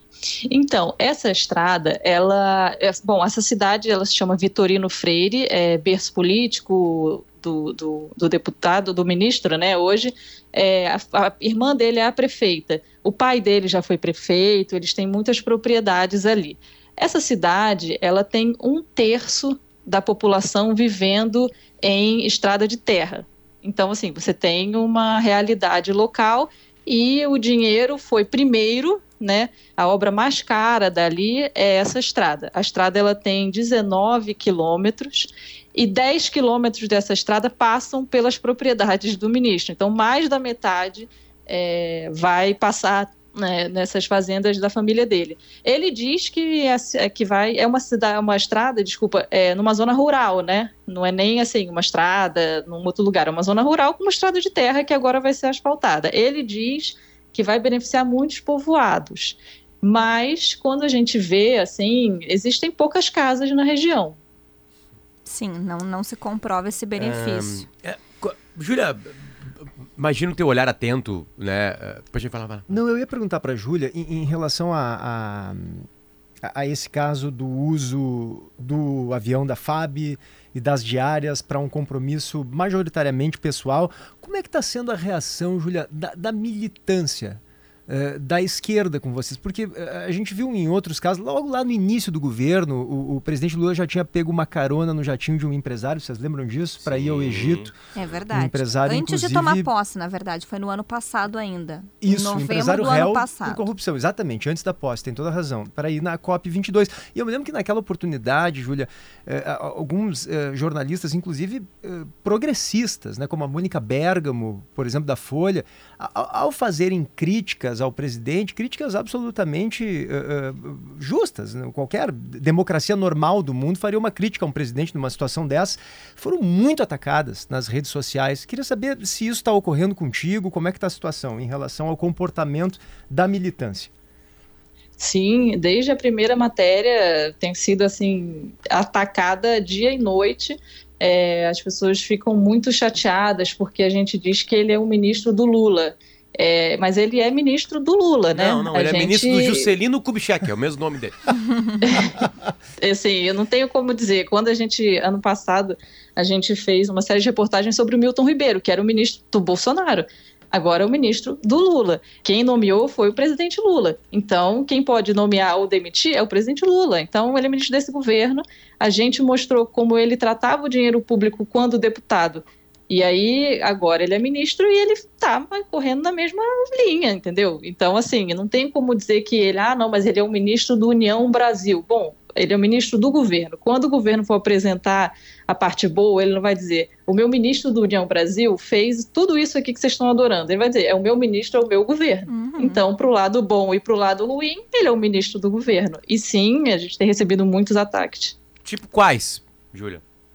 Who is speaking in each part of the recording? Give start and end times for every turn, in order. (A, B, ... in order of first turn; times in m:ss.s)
0:00.5-1:04.2 A
1:05.2-1:07.7 B
1:07.0-1:12.7 C
1:12.7-1:15.9 D
1:16.4-1:37.8 D
1:36.8-1:37.7 C
1:37.9-1:43.6 B
1:38.3-1:39.7 D
1:42.0-2:13.9 D
2:15.0-2:29.7 A
2:28.3-2:31.3 C
2:31.8-2:32.2 A
2:32.8-3:18.3 A
3:12.3-3:12.8 B
3:18.6-3:20.0 C